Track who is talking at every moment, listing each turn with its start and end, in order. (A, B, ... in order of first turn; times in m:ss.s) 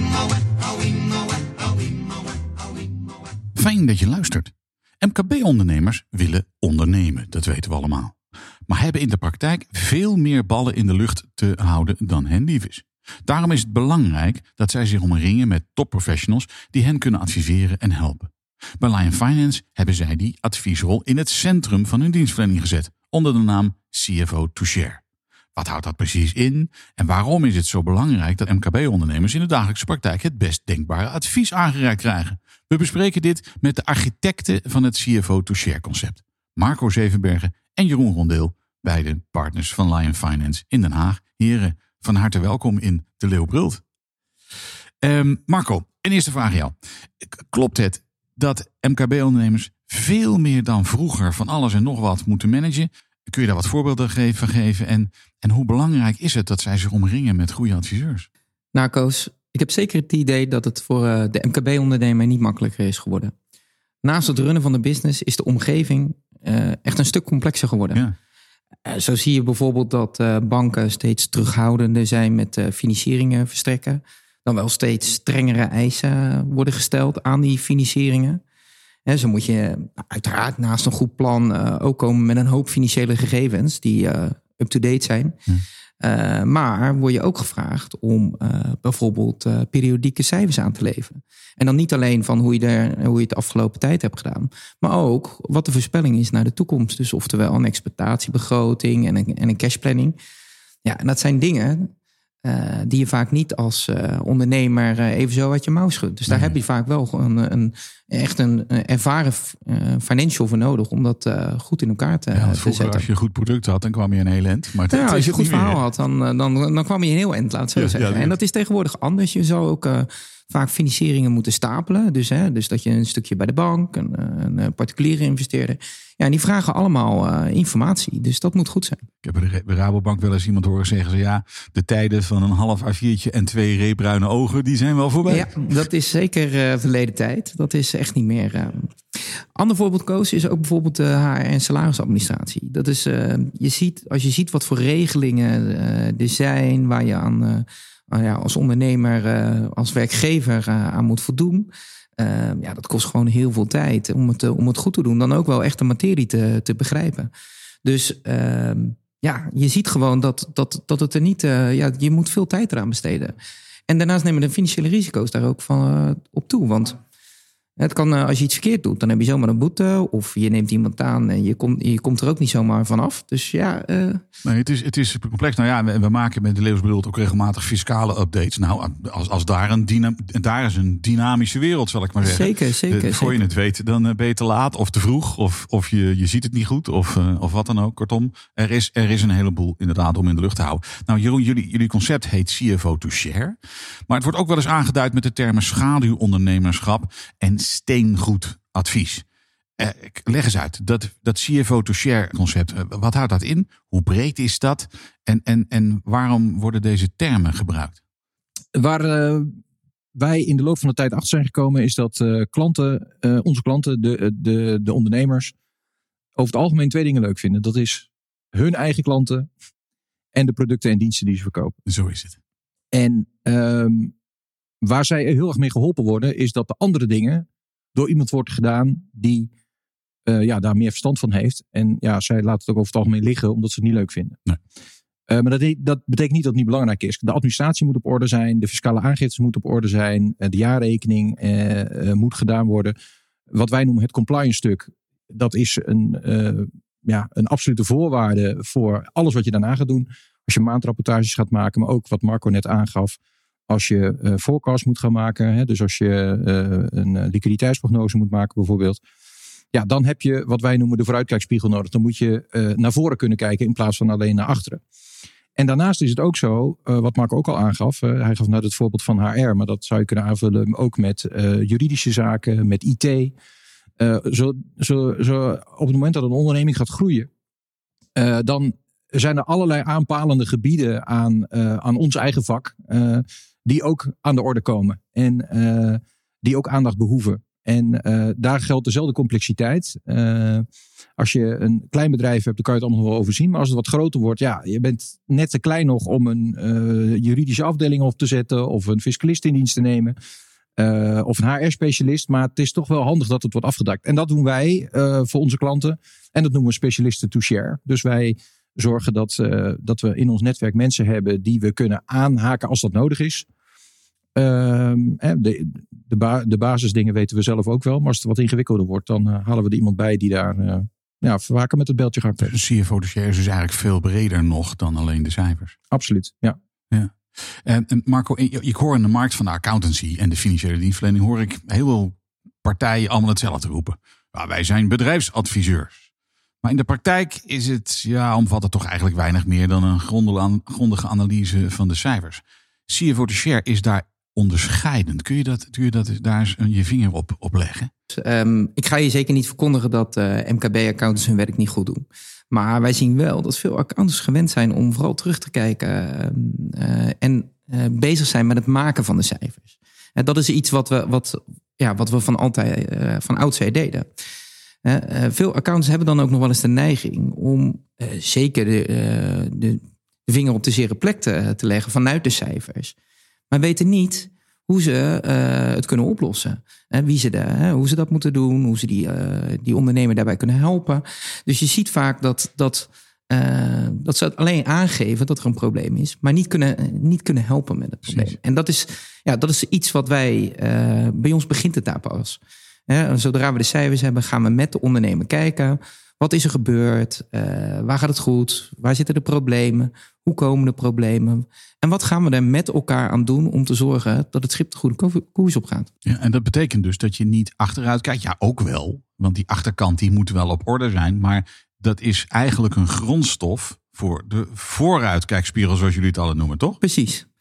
0:03.6-0:08.2 A
0:08.7-0:25.0 A
0:25.6-0:43.8 A
0:45.0-0:58.3 A
0:58.7-1:03.3 B
1:04.0-1:08.1 B
1:08.8-1:18.4 B
1:19.1-1:25.4 B
1:26.0-1:40.2 B
1:40.8-1:41.9 B
1:42.4-1:53.1 B
1:46.3-1:46.6 A
1:52.3-1:55.8 A
1:54.9-2:09.1 B
1:57.8-1:58.4 A
2:09.2-2:15.5 A
2:15.3-2:18.9 B
2:19.6-2:37.3 B
2:37.8-2:43.4 B
2:43.9-2:47.0 B
2:47.8-2:54.2 B
2:54.4-3:13.6 A
3:02.2-3:03.4 B
3:14.1-3:19.2 A
3:19.8-3:28.0 A
3:28.8-3:29.5 C
3:30.2-3:35.5 C
3:36.4-3:39.5 C
3:40.3-3:41.8 C
3:41.9-3:42.4 A
3:42.9-3:44.1 C
3:44.8-3:49.5 C
3:50.3-3:54.4 C
3:55.3-4:03.0 C
4:03.5-4:19.0 C
4:19.7-4:24.8 C
4:25.6-4:33.4 C
4:34.0-4:37.3 C
4:38.2-4:50.7 C
4:51.2-5:00.2 C
5:00.8-5:13.5 C
5:14.4-5:22.5 C
5:22.4-5:25.8 A
5:25.9-5:26.6 C
5:26.9-5:36.0 A
5:36.6-5:47.9 A
5:48.1-6:04.1 B
6:04.8-6:13.0 B
6:13.5-6:45.9 B
6:28.1-6:28.4 A
6:46.1-6:56.8 A
6:56.8-6:57.3 B